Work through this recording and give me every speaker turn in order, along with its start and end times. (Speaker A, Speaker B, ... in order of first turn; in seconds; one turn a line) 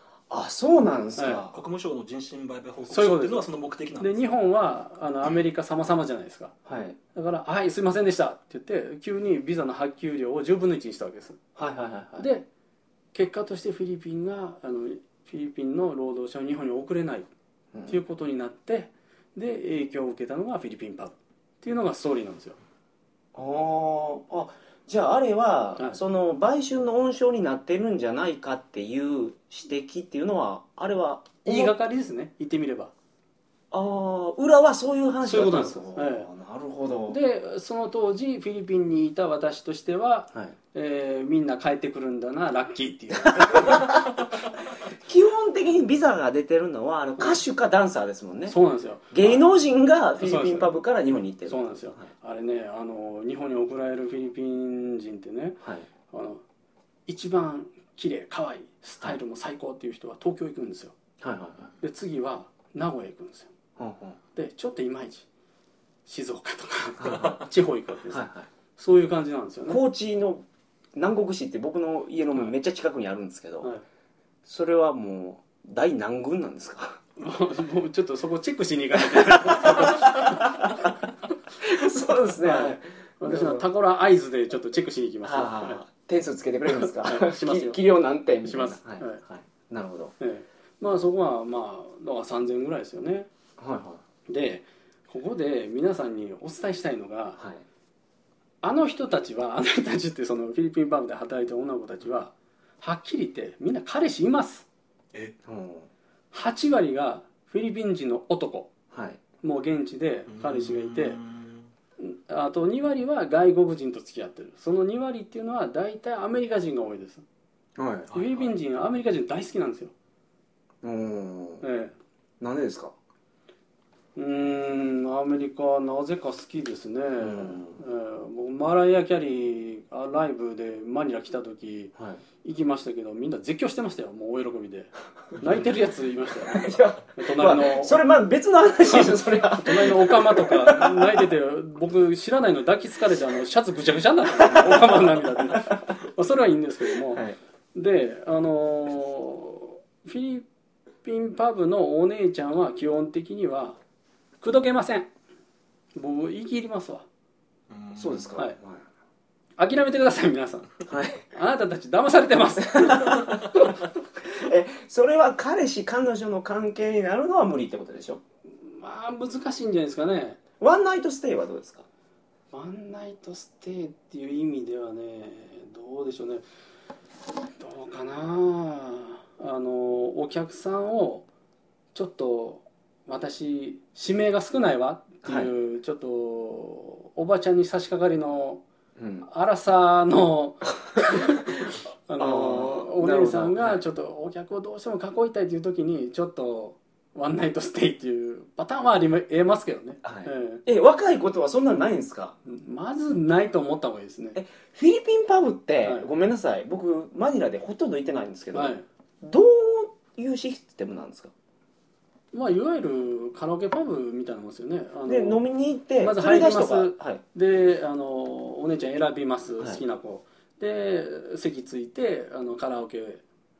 Speaker A: 0.3-1.6
Speaker B: 1.2-1.4
Speaker C: 1.5-4.3
Speaker B: 2.9-3.5
Speaker B: 4.0-6.5
Speaker A: 6.7-7.0
Speaker B: 7.1-11.4
Speaker A: 11.6-12.3
Speaker B: 12.2-12.4
Speaker B: 13.1-17.3
Speaker A: 17.7-18.0
Speaker B: 17.9-22.6
Speaker A: 23.3-31.7
Speaker B: 31.4-32.9
Speaker A: 33.7-37.2
Speaker B: 35.2-36.3
Speaker B: 37.1-43.9
Speaker A: 43.4-44.1
Speaker A: 45.0-48.5
Speaker B: 48.5-49.4
Speaker A: 49.1-52.1
Speaker B: 50.2-50.7
Speaker B: 51.5-55.6
Speaker A: 55.6-55.9
Speaker B: 56.1-56.4
Speaker B: 57.1-60.9
Speaker A: 61.2-61.7
Speaker B: 61.8-63.5
Speaker A: 63.8-64.2
Speaker B: 64.3-65.2
Speaker B: 66.0-69.8
Speaker A: 67.0-67.4
Speaker A: 68.1-68.5
Speaker A: 69.7-70.4
Speaker A: 71.0-73.7
Speaker A: 74.5-77.0
Speaker B: 77.2-80.8
Speaker A: 79.1-80.9
Speaker A: 81.6-83.6
Speaker B: 82.4-85.8
Speaker A: 85.2-90.1
Speaker B: 86.7-87.8
Speaker B: 88.4-89.2
Speaker B: 90.2-93.3
Speaker A: 93.6-94.0
Speaker B: 94.3-97.4
Speaker A: 97.4-97.6
Speaker B: 98.6-104.7
Speaker A: 105.4-105.9
Speaker B: 106.3-108.7
Speaker A: 108.9-109.2
Speaker B: 109.4-111.2
Speaker C: 110.3-111.7
Speaker B: 112.0-117.2
Speaker A: 117.8-118.1
Speaker C: 118.1-118.5
Speaker B: 118.1-119.9
Speaker A: 120.8-121.6
Speaker B: 121.6-121.9
Speaker A: 122.4-122.9
Speaker B: 124.2-138.0
Speaker A: 127.2-127.8
Speaker A: 131.9-132.2
Speaker A: 136.4-141.3
Speaker B: 138.8-147.2
Speaker A: 144.5-144.8
Speaker A: 147.1-147.4
Speaker B: 147.7-150.4
Speaker B: 151.0-153.8
Speaker B: 154.4-155.1
Speaker B: 155.9-157.0
Speaker C: 157.7-158.3
Speaker A: 157.9-158.8
Speaker B: 159.6-160.7
Speaker A: 160.9-161.2
Speaker B: 161.3-163.7
Speaker A: 162.7-163.7
Speaker A: 164.3-168.2
Speaker B: 168.5-170.4
Speaker A: 170.6-171.8
Speaker B: 172.5-176.4
Speaker B: 177.6-181.2
Speaker B: 181.9-188.6
Speaker A: 185.2-185.5
Speaker A: 189.0-189.2
Speaker B: 189.2-200.6
Speaker A: 192.2-193.8
Speaker A: 200.0-202.3
Speaker B: 202.4-204.4
Speaker A: 204.3-211.3
Speaker B: 208.5-208.8
Speaker B: 212.3-215.4
Speaker A: 215.1-217.2
Speaker B: 216.0-223.2